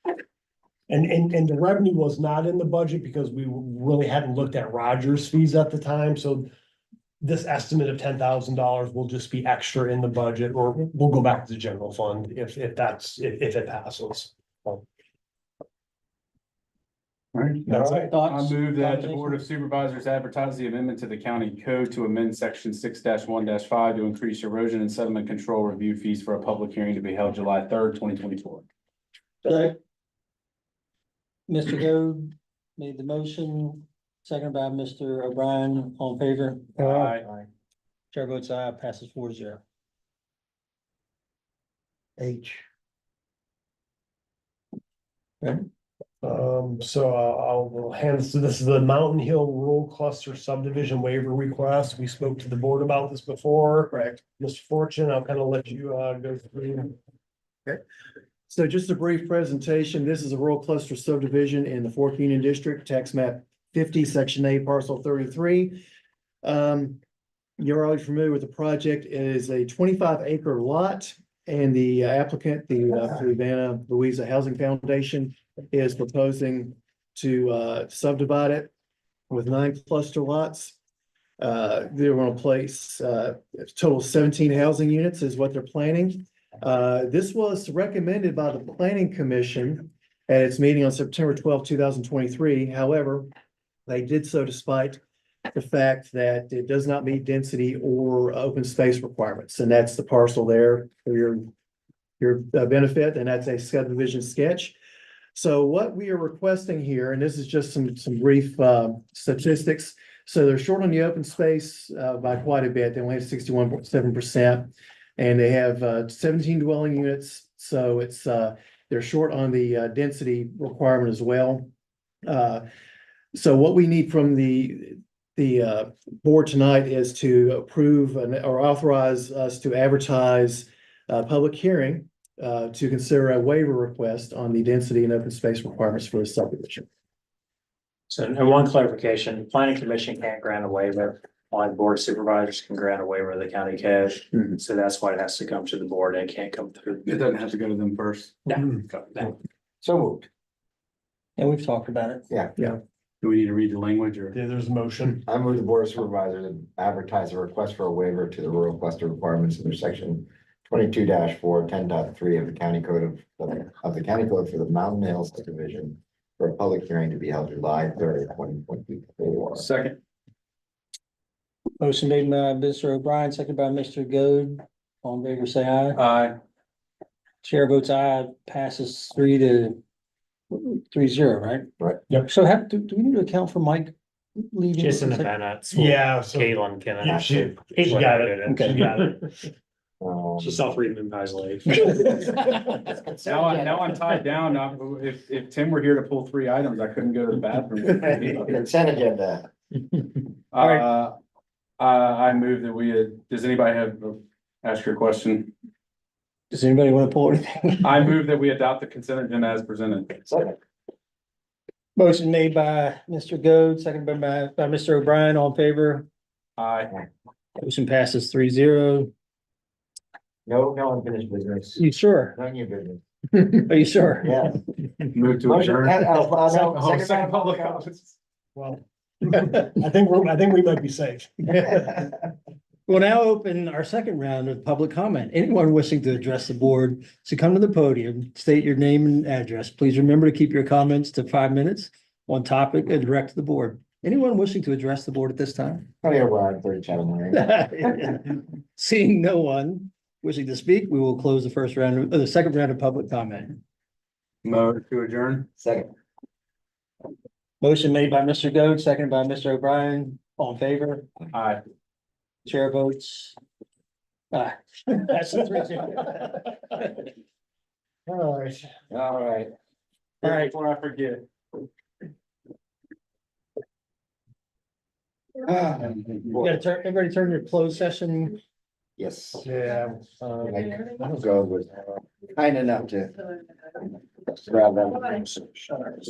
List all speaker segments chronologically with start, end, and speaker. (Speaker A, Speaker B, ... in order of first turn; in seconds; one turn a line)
Speaker A: 0.9-6.5
Speaker A: 7.2-14.8
Speaker B: 17.3-28.6
Speaker A: 17.7-18.1
Speaker C: 18.1-19.4
Speaker C: 29.4-29.8
Speaker C: 31.5-37.2
Speaker B: 36.8-37.2
Speaker C: 38.1-39.6
Speaker C: 42.2-42.5
Speaker C: 45.4-45.7
Speaker A: 46.2-57.0
Speaker D: 53.9-54.2
Speaker D: 58.5-65.8
Speaker D: 66.4-67.0
Speaker D: 67.6-78.7
Speaker D: 79.3-80.8
Speaker D: 81.4-93.3
Speaker D: 93.9-95.0
Speaker D: 95.5-101.5
Speaker D: 102.2-104.8
Speaker D: 105.3-121.7
Speaker D: 122.2-122.7
Speaker D: 123.3-136.9
Speaker E: 138.1-147.2
Speaker B: 147.1-149.2
Speaker C: 149.8-150.2
Speaker C: 151.4-152.2
Speaker F: 152.3-152.6
Speaker B: 153.2-154.3
Speaker A: 154.3-155.2
Speaker F: 155.3-169.7
Speaker B: 169.6-170.0
Speaker C: 171.8-176.0
Speaker B: 175.9-176.3
Speaker C: 177.4-179.8
Speaker C: 180.5-181.7
Speaker C: 182.2-185.3
Speaker E: 184.8-189.2
Speaker A: 185.7-189.3
Speaker C: 188.5-188.9
Speaker F: 190.0-190.6
Speaker E: 190.4-191.9
Speaker F: 192.9-194.1
Speaker B: 193.2-198.6
Speaker F: 198.1-199.5
Speaker B: 200.5-201.2
Speaker C: 200.6-200.8
Speaker B: 201.8-205.5
Speaker C: 206.5-207.9
Speaker B: 207.8-210.2
Speaker F: 210.3-210.6
Speaker C: 212.0-216.1
Speaker B: 216.6-216.9
Speaker C: 217.6-219.1
Speaker F: 220.5-223.0
Speaker C: 221.8-222.3
Speaker C: 223.4-224.6
Speaker F: 224.2-224.6
Speaker B: 225.1-228.1
Speaker F: 225.4-227.9
Speaker A: 228.5-231.5
Speaker F: 231.7-232.1
Speaker C: 232.9-245.9
Speaker F: 246.0-248.2
Speaker C: 247.3-248.2
Speaker C: 248.8-253.6
Speaker B: 254.4-255.5
Speaker F: 255.6-255.9
Speaker C: 257.6-261.1
Speaker B: 261.3-261.6
Speaker C: 262.4-263.4
Speaker C: 264.3-266.5
Speaker F: 268.1-269.5
Speaker B: 270.2-271.3
Speaker C: 270.2-270.5
Speaker F: 275.4-276.6
Speaker C: 276.4-278.4
Speaker F: 279.0-279.5
Speaker A: 279.4-280.6
Speaker F: 280.4-283.2
Speaker F: 284.2-285.5